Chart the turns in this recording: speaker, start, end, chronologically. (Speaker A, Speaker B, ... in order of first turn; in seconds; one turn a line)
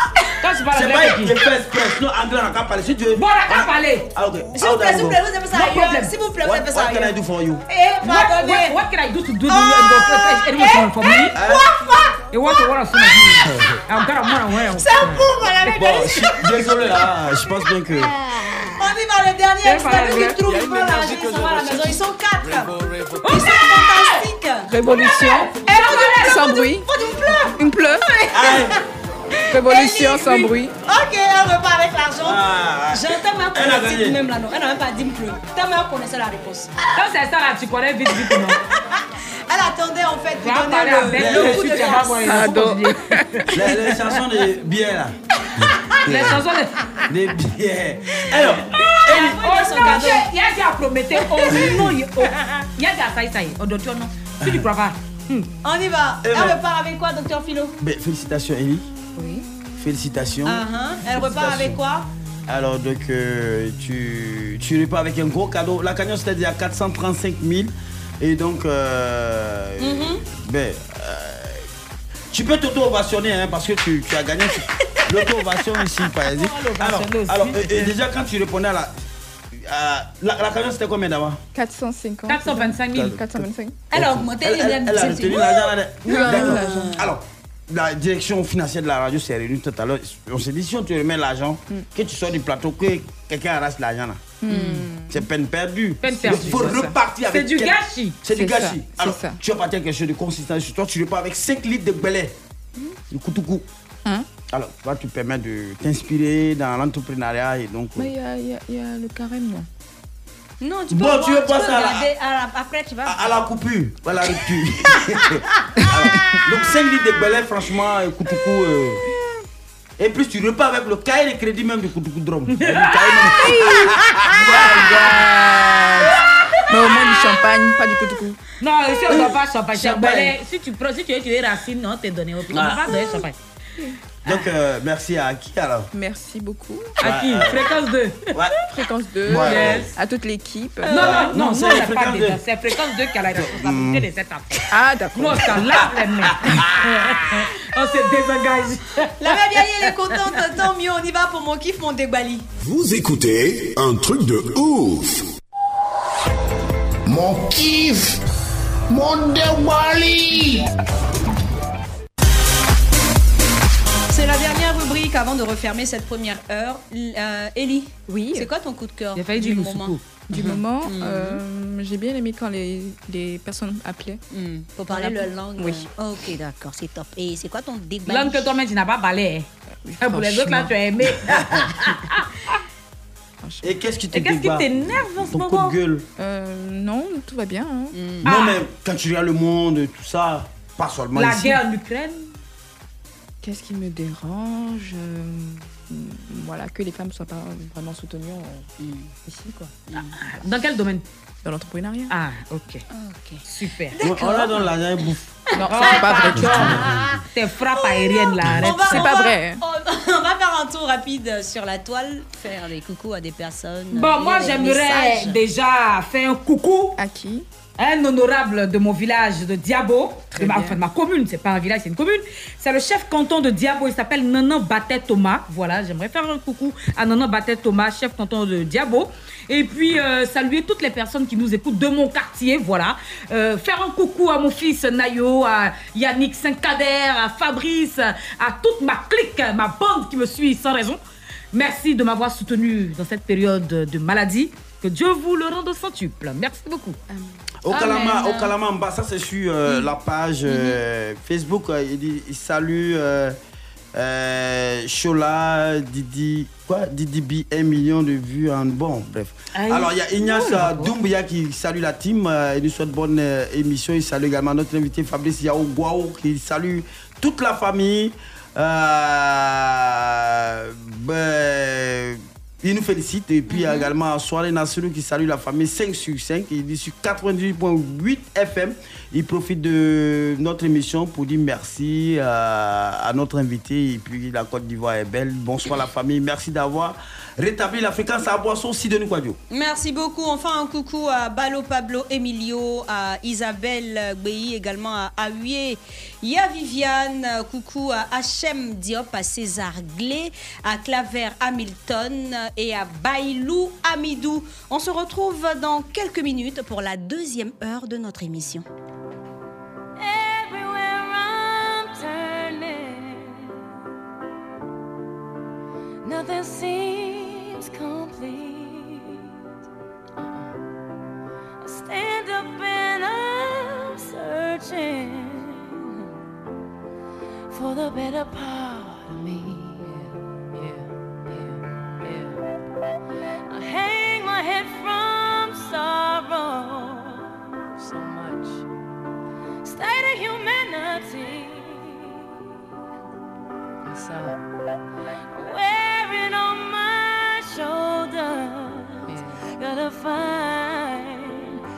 Speaker A: 0.4-1.4
Speaker B: 0.7-5.2
Speaker A: 3.1-4.1
Speaker C: 4.5-7.1
Speaker A: 5.5-6.1
Speaker B: 6.4-7.6
Speaker C: 7.7-8.8
Speaker A: 8.0-11.4
Speaker C: 9.5-12.5
Speaker B: 11.3-11.7
Speaker A: 12.3-16.2
Speaker B: 13.3-13.8
Speaker C: 14.7-16.3
Speaker B: 15.7-18.1
Speaker C: 18.6-25.0
Speaker A: 19.6-20.3
Speaker D: 20.0-20.4
Speaker A: 23.2-24.2
Speaker D: 24.7-25.6
Speaker A: 24.8-26.5
Speaker C: 25.6-28.8
Speaker D: 26.1-26.9
Speaker D: 27.6-28.0
Speaker B: 28.3-28.8
Speaker D: 29.5-30.7
Speaker C: 29.5-32.4
Speaker B: 32.2-34.2
Speaker C: 32.9-36.9
Speaker A: 37.0-38.6
Speaker C: 39.5-42.5
Speaker A: 40.4-43.6
Speaker B: 41.1-41.8
Speaker D: 42.2-43.5
Speaker B: 43.5-46.4
Speaker A: 46.0-46.7
Speaker B: 47.1-49.4
Speaker A: 48.7-55.5
Speaker C: 49.0-50.3
Speaker C: 51.2-51.8
Speaker B: 51.6-51.9
Speaker C: 55.6-57.8
Speaker B: 56.2-56.6
Speaker B: 57.8-58.9
Speaker D: 59.2-59.5
Speaker B: 59.8-61.8
Speaker C: 60.4-62.1
Speaker B: 62.5-71.7
Speaker C: 69.8-70.2
Speaker B: 72.3-81.4
Speaker A: 76.3-77.9
Speaker D: 81.5-83.8
Speaker A: 82.3-83.2
Speaker B: 82.9-94.3
Speaker C: 83.9-86.9
Speaker D: 86.0-87.0
Speaker D: 94.4-95.2
Speaker C: 94.5-94.8
Speaker B: 95.1-102.3
Speaker A: 96.0-98.2
Speaker D: 96.1-97.0
Speaker D: 98.3-99.4
Speaker B: 103.1-103.6
Speaker B: 104.5-108.1
Speaker D: 108.0-109.7
Speaker C: 110.6-113.3
Speaker B: 110.9-112.1
Speaker B: 113.0-119.0
Speaker B: 120.0-125.2
Speaker A: 122.5-123.6
Speaker D: 123.5-128.4
Speaker A: 128.6-133.3
Speaker B: 129.7-130.3
Speaker B: 132.5-133.2
Speaker B: 134.2-135.9
Speaker D: 135.9-137.0
Speaker B: 137.0-137.8
Speaker A: 137.0-138.4
Speaker D: 138.7-141.3
Speaker B: 139.2-139.9
Speaker A: 139.3-139.9
Speaker A: 140.8-149.4
Speaker B: 140.9-142.4
Speaker B: 143.3-144.1
Speaker D: 144.7-145.8
Speaker C: 149.2-152.5
Speaker E: 152.6-155.2
Speaker E: 157.1-158.2
Speaker E: 158.9-160.6
Speaker C: 164.1-171.4
Speaker D: 168.1-168.5
Speaker A: 169.1-170.0
Speaker D: 170.3-174.2
Speaker C: 174.3-178.5
Speaker D: 175.6-175.8
Speaker A: 178.1-179.5
Speaker D: 179.8-180.7
Speaker A: 180.0-182.6
Speaker D: 183.4-183.7
Speaker B: 183.6-186.1
Speaker A: 184.1-185.8
Speaker D: 186.2-187.9
Speaker C: 187.9-188.3
Speaker A: 188.2-188.6
Speaker B: 188.2-191.6
Speaker A: 191.1-192.3
Speaker D: 193.4-198.7
Speaker C: 198.8-199.1
Speaker D: 199.2-199.7
Speaker A: 200.0-201.0
Speaker D: 201.4-202.1
Speaker A: 202.1-202.8
Speaker C: 202.9-204.7
Speaker A: 203.4-204.0
Speaker B: 204.0-205.2
Speaker D: 205.5-206.9
Speaker A: 205.7-209.2
Speaker C: 205.7-207.2
Speaker B: 206.2-207.1
Speaker C: 207.7-215.4
Speaker D: 208.8-209.6
Speaker A: 213.9-216.9
Speaker D: 217.0-217.4
Speaker A: 217.8-241.0
Speaker D: 220.3-220.8
Speaker A: 241.5-247.0
Speaker D: 247.1-247.4
Speaker B: 247.6-253.4
Speaker C: 247.7-248.5
Speaker B: 253.9-289.4
Speaker A: 259.6-260.9
Speaker C: 273.5-273.9
Speaker C: 289.5-308.6
Speaker F: 320.2-320.6
Speaker F: 329.7-332.4
Speaker F: 337.8-338.7
Speaker F: 343.8-344.4
Speaker F: 349.1-349.4